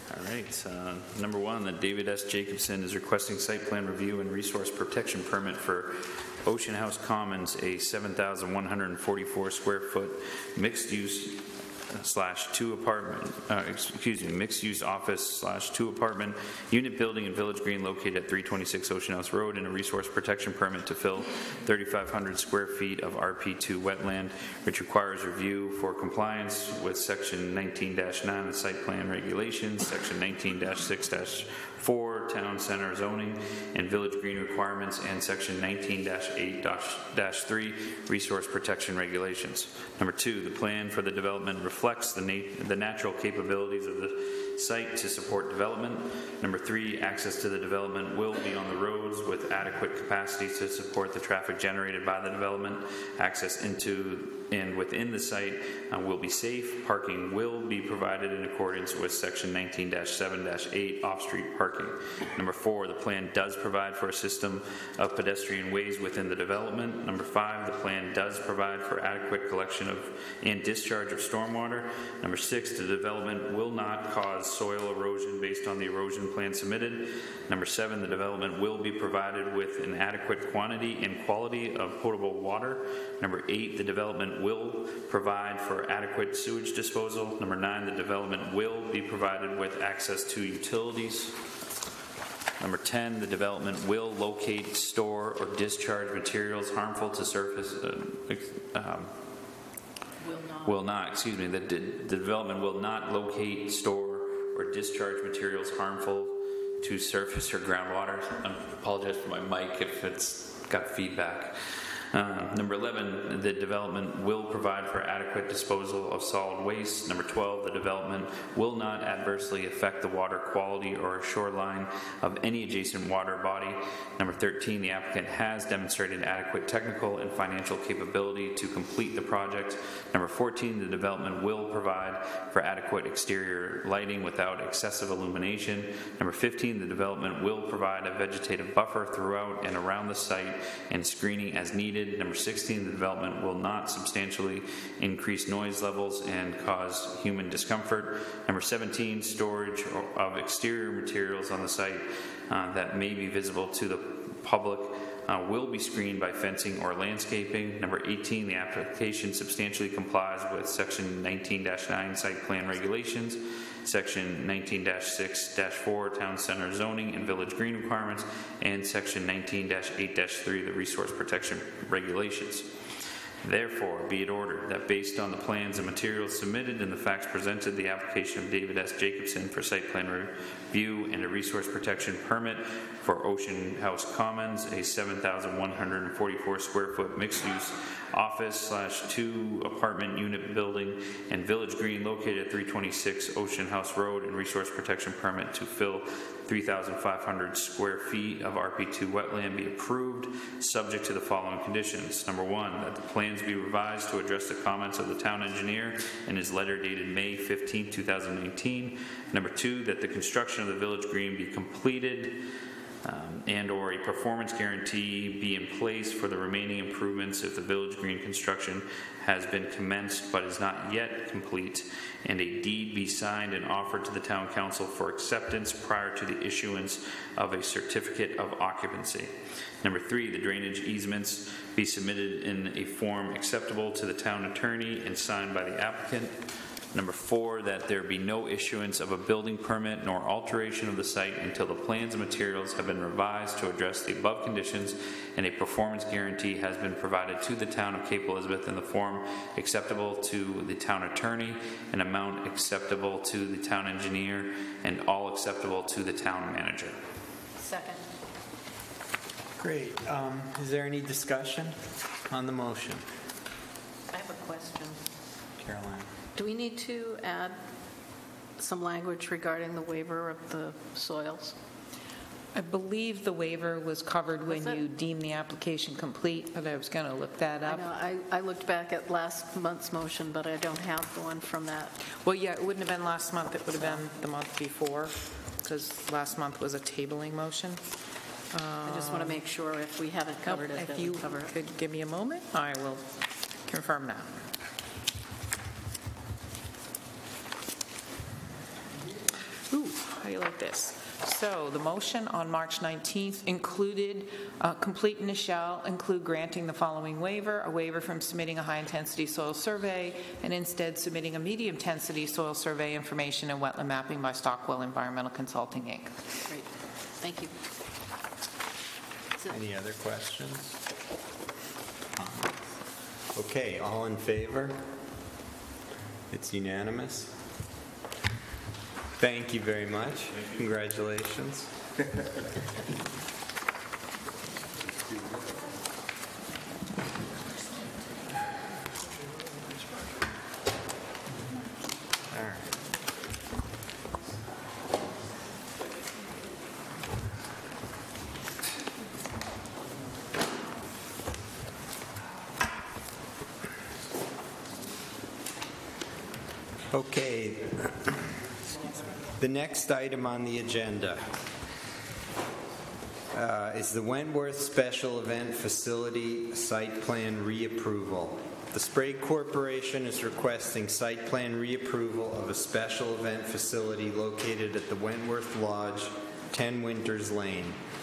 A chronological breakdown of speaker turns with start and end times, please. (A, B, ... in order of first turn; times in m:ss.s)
0:00.1-1:31.4 A
1:32.6-1:39.1 A
1:40.2-1:40.8 B
1:40.6-2:52.8 A
2:53.4-3:32.4 A
3:33.0-3:56.4 A
3:56.9-4:17.0 A
4:17.6-4:18.0 B
4:19.6-4:23.0 C
4:24.1-4:25.0 B
4:25.6-4:26.1 C
4:26.4-4:27.6 B
4:28.6-4:31.6 B
4:32.6-4:37.9 D
4:34.5-4:34.8 B
4:37.6-4:41.9 B
4:42.2-4:47.8 D
4:48.5-4:49.4 D
4:48.8-4:51.5 B
4:50.4-4:53.1 D
4:53.6-4:54.4 D
4:59.7-5:16.1 D
5:16.5-5:17.5 B
5:19.5-5:20.8 C
5:22.2-5:22.8 C
5:23.3-5:24.9 C
5:26.3-5:27.3 C
5:29.2-5:31.7 C
5:42.3-5:42.7 C
5:56.9-5:58.3 C
5:59.3-6:01.4 C
6:03.3-6:17.8 C